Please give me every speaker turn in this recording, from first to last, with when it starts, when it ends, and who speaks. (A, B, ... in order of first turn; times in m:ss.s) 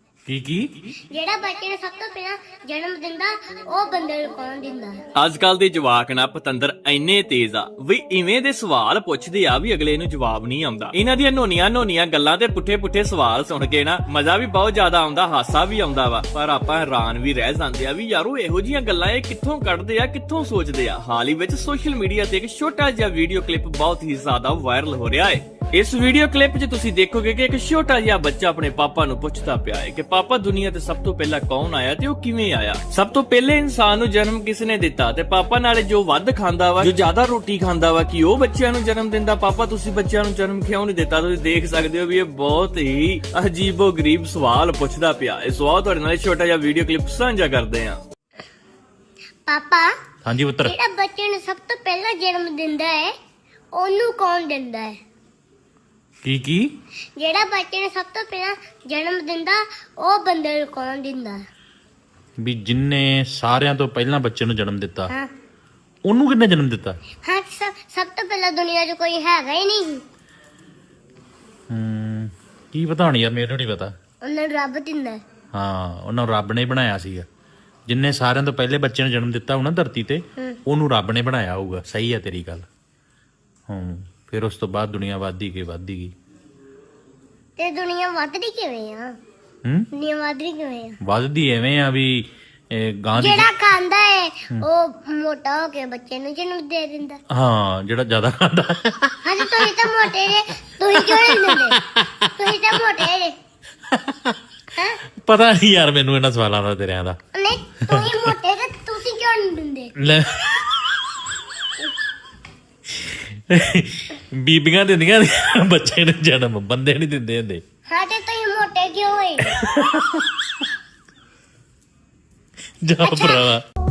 0:00.3-0:00.7 A
0:01.1-0:05.0 B
0:05.2-0:48.0 C
0:49.5-0:49.9 B
0:50.2-0:50.7 A
0:50.6-0:53.1 B
0:53.8-0:54.9 B
0:56.2-0:56.7 A
0:57.2-1:01.4 B
1:02.4-1:05.1 A
1:06.0-1:07.0 A
1:07.2-1:10.0 B
1:11.7-1:13.9 A
1:14.2-1:15.2 B
1:15.5-1:17.2 A
1:17.9-1:22.6 A
1:23.7-1:26.1 A
1:27.6-1:29.1 B
1:29.9-1:30.9 B
1:31.0-1:32.2 A
1:32.7-1:33.5 A
1:33.2-1:37.2 B
1:37.3-1:40.1 A
1:39.2-1:41.8 B
1:40.9-1:42.5 A
1:42.4-1:43.3 B
1:43.9-1:44.4 A
1:45.2-1:47.2 A
1:47.3-1:49.9 B
1:47.9-1:48.3 A
1:50.0-1:50.4 A
1:52.9-1:57.6 A
1:57.9-1:59.6 B
1:59.5-2:00.6 A
2:02.8-2:03.6 A
2:03.0-2:03.5 B